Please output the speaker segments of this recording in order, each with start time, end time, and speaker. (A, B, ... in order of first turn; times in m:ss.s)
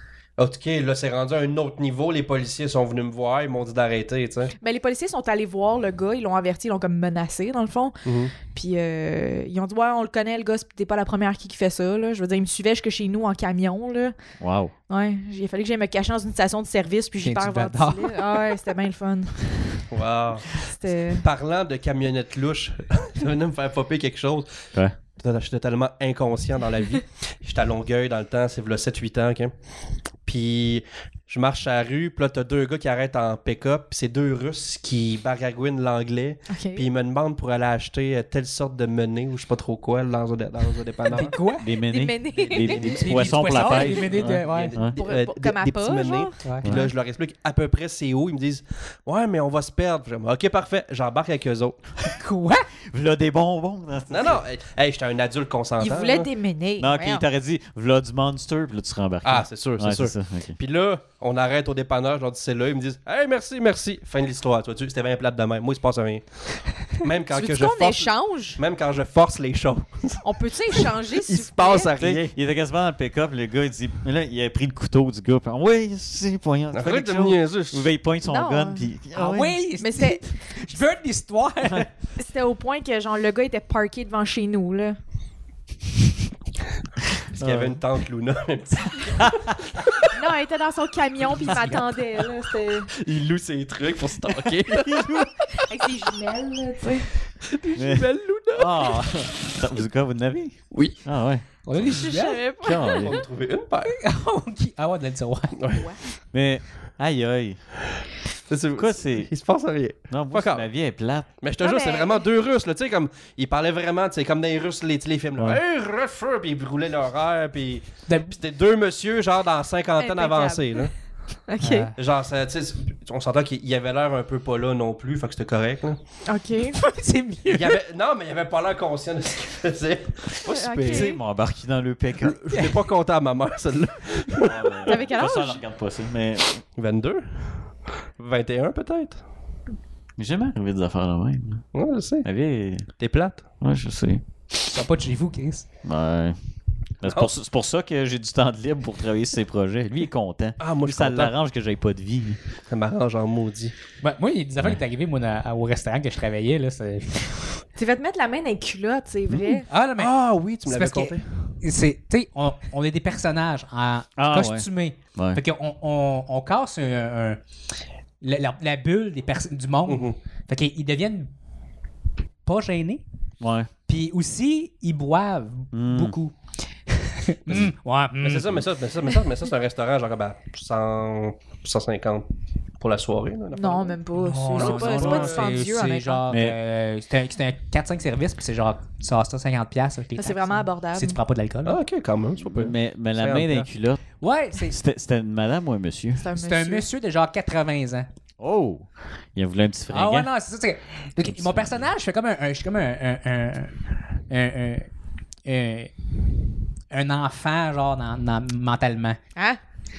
0:00.4-0:04.5 A
0:04.6-0:14.2 B
0:08.0-0:08.3 A
0:14.4-0:14.7 C
0:14.9-0:19.9 B
0:17.2-0:18.1 D
0:19.9-0:24.6 A
0:20.5-0:21.3 B
0:25.2-0:29.5 A
0:30.2-0:41.3 A
0:36.5-0:36.9 B
0:41.1-0:41.6 D
0:41.6-0:45.0 C
0:41.6-0:44.2 B
0:42.4-0:51.9 A
0:42.7-0:44.8 D
0:44.8-0:46.9 B
0:46.4-0:46.7 D
0:52.1-0:52.7 D
0:52.9-0:54.4 C
0:54.1-0:56.3 A
0:55.8-0:57.2 B
0:56.8-1:00.6 C
0:59.2-1:12.3 A
1:07.3-1:08.6 B
1:10.2-1:11.9 B
1:12.0-1:19.6 C
1:16.7-1:17.9 A
1:18.2-1:18.9 B
1:19.1-1:21.9 D
1:19.8-1:20.2 B
1:22.2-1:25.0 B
1:27.3-1:30.1 A
1:27.4-1:27.8 C
1:30.1-1:32.9 B
1:31.4-1:32.3 A
1:32.9-1:35.2 A
1:34.7-1:35.3 C
1:35.5-1:37.1 B
1:37.4-1:39.1 A
1:37.8-1:42.1 C
1:40.7-1:41.0 A
1:41.6-1:42.4 D
1:41.8-1:43.2 B
1:42.6-1:43.2 C
1:42.9-1:44.0 A
1:43.9-1:45.6 D
1:45.6-1:45.9 A
1:45.7-1:46.0 B
1:46.3-1:47.7 C
1:48.4-1:50.7 A
1:48.8-1:49.3 C
1:50.1-1:51.3 C
1:51.4-2:00.9 A
1:51.6-1:52.2 B
1:58.1-1:58.4 D
2:00.0-2:00.9 B
2:01.5-2:01.9 B
2:01.6-2:01.9 D
2:01.9-2:06.0 A
2:06.2-2:06.9 B
2:06.9-2:07.8 D
2:07.5-2:11.2 A
2:10.4-2:11.2 B
2:10.8-2:12.4 C
2:12.2-2:15.0 A
2:14.4-2:16.6 C
2:14.9-2:15.6 B
2:16.7-2:19.2 A
2:20.2-2:21.7 C
2:21.7-2:22.2 A
2:22.2-2:23.0 C
2:22.9-2:23.4 A
2:23.6-2:24.2 C
2:24.6-2:25.7 D
2:25.8-2:26.4 C
2:26.9-2:32.4 C
2:27.0-2:27.3 A
2:30.6-2:31.3 A
2:32.7-2:33.7 A
2:34.0-2:37.6 D
2:37.8-2:39.7 B
2:39.7-2:47.4 D
2:40.0-2:41.5 A
2:44.2-2:45.4 C
2:48.2-2:51.3 D
2:49.8-2:50.2 A
2:52.4-2:53.0 D
2:53.4-2:53.7 C
2:53.9-2:58.6 D
2:55.7-2:56.2 C
2:58.2-3:02.2 A
3:02.8-3:04.0 A
3:03.5-3:06.2 B
3:04.1-3:11.8 D
3:04.5-3:05.5 A
3:06.3-3:06.6 C
3:10.2-3:11.2 B
3:11.6-3:13.7 A
3:12.4-3:16.2 C
3:14.2-3:14.8 D
3:16.2-3:16.8 B
3:16.3-3:18.1 D
3:18.4-3:20.3 C
3:19.9-3:24.9 D
3:21.2-3:21.8 C
3:25.4-3:25.9 D
3:26.9-3:29.2 D